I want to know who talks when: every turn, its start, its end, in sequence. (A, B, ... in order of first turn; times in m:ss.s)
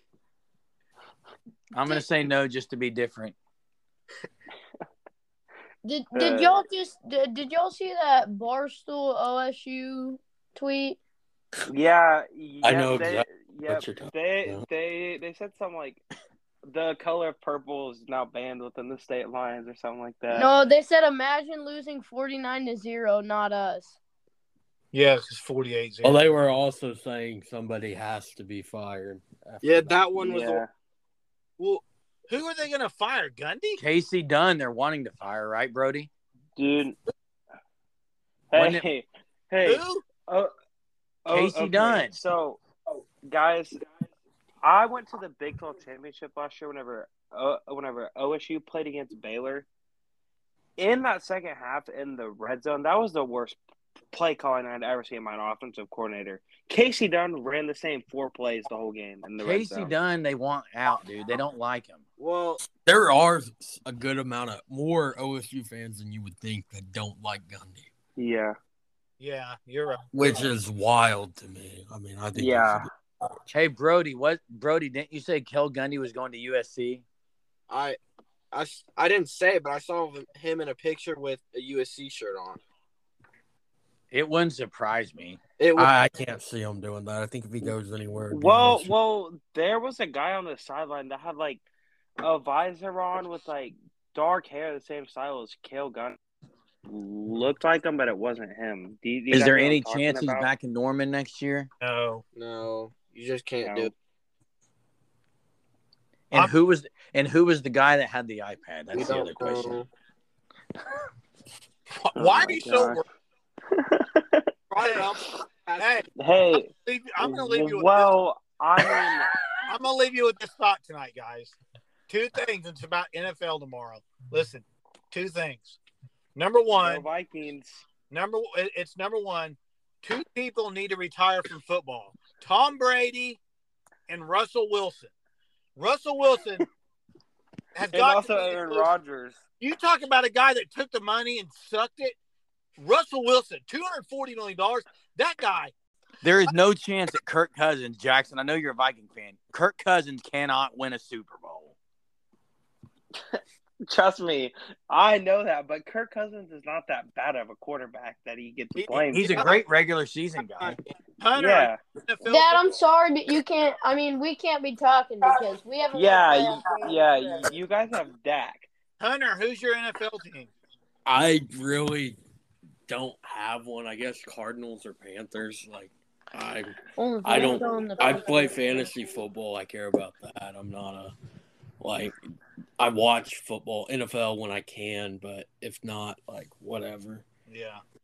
0:01.7-0:03.3 A
0:05.8-0:11.0 B
0:06.1-0:06.6 C
0:11.7-0:16.0 C
0:12.6-0:14.6 D
0:16.6-0:20.5 C
0:20.3-0:24.0 B
0:24.9-0:26.2 E
0:26.0-0:30.0 D
0:29.6-0:30.6 F
0:30.2-0:30.7 C
0:32.3-0:33.8 E
0:33.8-0:36.1 A
0:36.6-0:37.0 C
0:38.5-0:40.5 C
0:38.5-0:38.8 A
0:39.6-0:40.0 E
0:41.2-0:42.6 C
0:41.3-0:42.1 A
0:43.2-0:43.8 C
0:44.6-0:49.7 C
0:50.8-0:53.6 C
0:54.1-0:59.9 C
0:59.4-1:02.0 A
1:02.2-1:02.6 F
1:02.8-1:07.9 D
1:08.2-1:08.5 C
1:09.2-1:10.5 E
1:10.1-1:13.4 D
1:12.3-1:12.9 C
1:13.5-1:17.0 A
1:17.7-1:18.0 F
1:18.5-1:22.6 F
1:24.1-1:25.4 A
1:25.6-1:25.9 F
1:25.8-1:28.9 D
1:28.3-1:31.6 C
1:32.2-1:36.2 C
1:36.8-1:40.5 C
1:39.3-1:41.7 A
1:41.8-1:42.2 E
1:42.3-1:43.9 F
1:43.6-1:43.9 C
1:46.3-1:49.8 A
1:48.9-1:49.9 F
1:52.0-1:53.0 E
1:52.2-1:53.0 C
1:53.7-1:54.5 C
1:54.7-1:55.9 F
1:54.8-1:55.1 E
1:55.8-1:56.0 E
1:56.2-1:59.3 C
1:56.8-1:58.1 E
1:59.7-2:01.6 E
2:02.1-2:05.8 E
2:06.3-2:07.0 E
2:06.7-2:07.8 C
2:08.1-2:13.4 E
2:14.1-2:15.1 E
2:15.8-2:16.6 E
2:17.7-2:18.9 E
2:17.9-2:19.4 C
2:19.6-2:22.2 E
2:22.8-2:25.7 E
2:26.2-2:31.7 A
2:33.3-2:39.5 C
2:38.8-2:39.6 F
2:39.1-2:40.7 A
2:40.6-2:40.9 F
2:41.2-2:42.7 E
2:41.3-2:41.8 C
2:42.2-2:47.5 B
2:45.2-2:48.7 C
2:49.0-2:50.5 E
2:51.0-2:52.2 D
2:52.9-3:01.1 D
2:57.0-2:58.9 B
3:01.8-3:02.2 D
3:02.8-3:07.2 D
3:07.5-3:07.8 E